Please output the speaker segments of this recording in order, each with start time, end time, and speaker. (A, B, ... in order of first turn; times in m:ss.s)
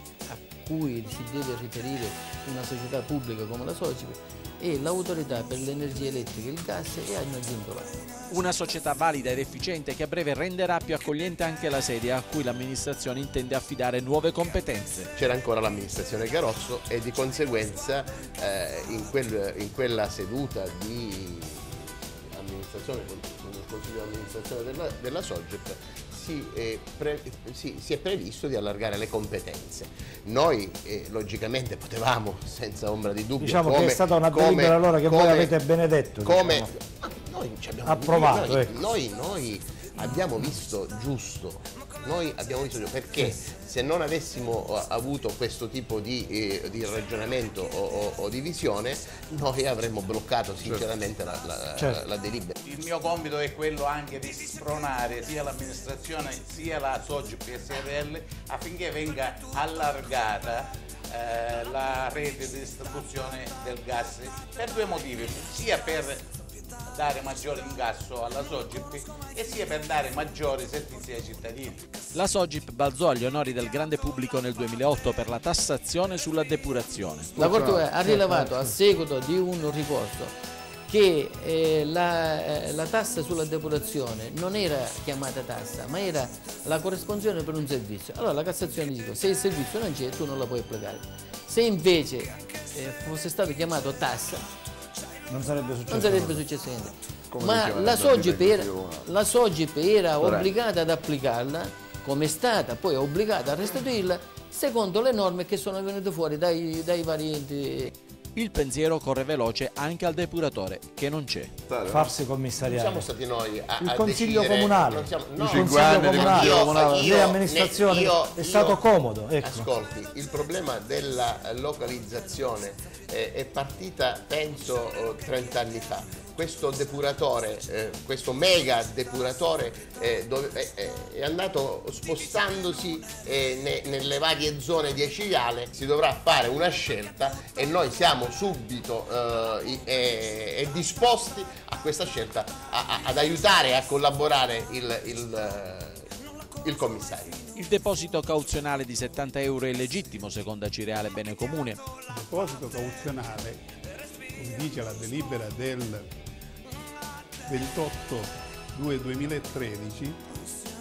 0:00.3-0:08.1 A
0:08.3-0:15.1 B
0:15.2-0:35.6 C
0:33.4-0:36.7 D
0:36.2-0:52.6 C
0:37.9-0:38.7 D
0:52.6-1:06.3 E
1:06.9-1:11.9 E
1:12.1-1:17.4 B
1:17.4-1:34.5 A
1:35.3-1:36.3 D
1:35.9-1:47.9 A
1:48.4-1:51.5 B
1:51.9-1:53.1 D
1:52.6-2:26.1 C
1:53.8-1:59.7 D
2:26.6-2:27.4 C
2:27.6-2:31.8 B
2:32.1-2:33.7 F
2:34.4-2:36.1 F
2:37.5-2:40.2 F